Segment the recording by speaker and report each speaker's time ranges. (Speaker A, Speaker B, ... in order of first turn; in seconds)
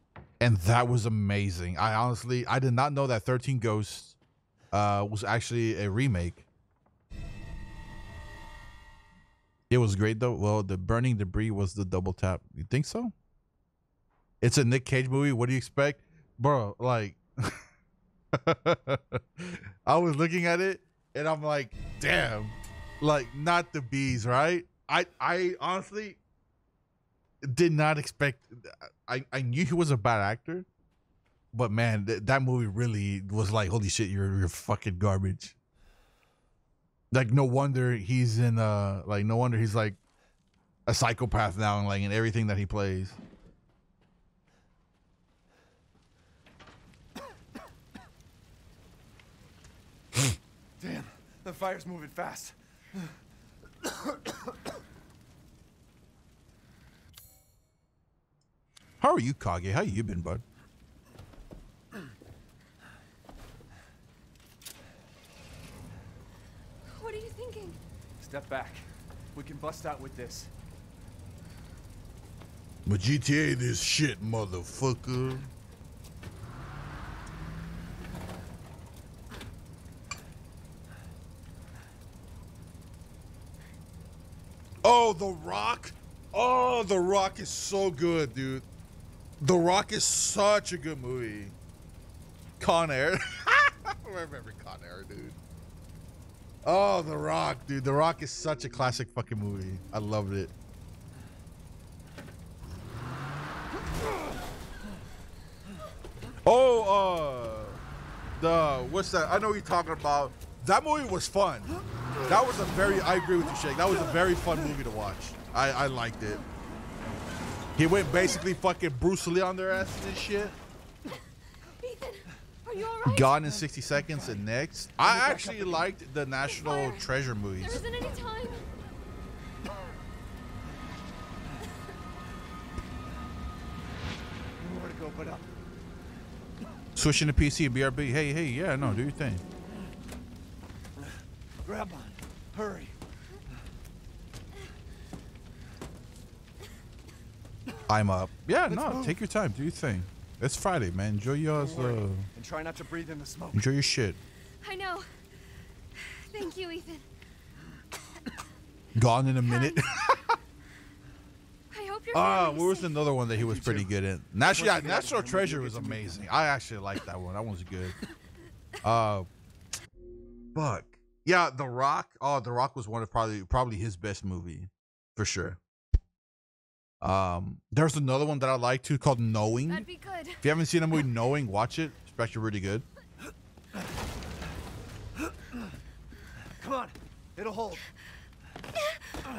Speaker A: 0.4-4.2, 4.7-6.5, 9.7-13.1, 14.4-17.6, 18.3-26.2, 27.4-30.7, 31.5-35.5, 37.1-40.0, 40.9-43.2, 59.0-60.4, 72.8-75.5, 84.8-88.6, 89.4-91.5, 92.6-95.4, 96.6-100.5, 106.4-107.8, 108.4-116.4, 117.8-120.5, 123.0-127.8, 136.9-139.4, 147.9-152.3, 153.5-154.2, 158.9-160.3, 162.1-167.9, 168.8-169.3, 170.5-175.6, 177.0-179.9, 180.4-182.8
Speaker B: 50.8-53.1, 68.2-68.8, 69.3-70.5, 124.0-124.4, 125.0-125.9, 134.6-135.5, 141.6-142.9, 148.7-149.2, 151.6-153.7, 163.3-166.3, 186.6-187.8
Speaker C: 66.9-67.8, 121.8-123.6, 126.4-127.0, 127.6-128.7, 154.6-155.1, 156.2-157.1, 159.4-160.2, 161.7-163.1, 179.7-180.4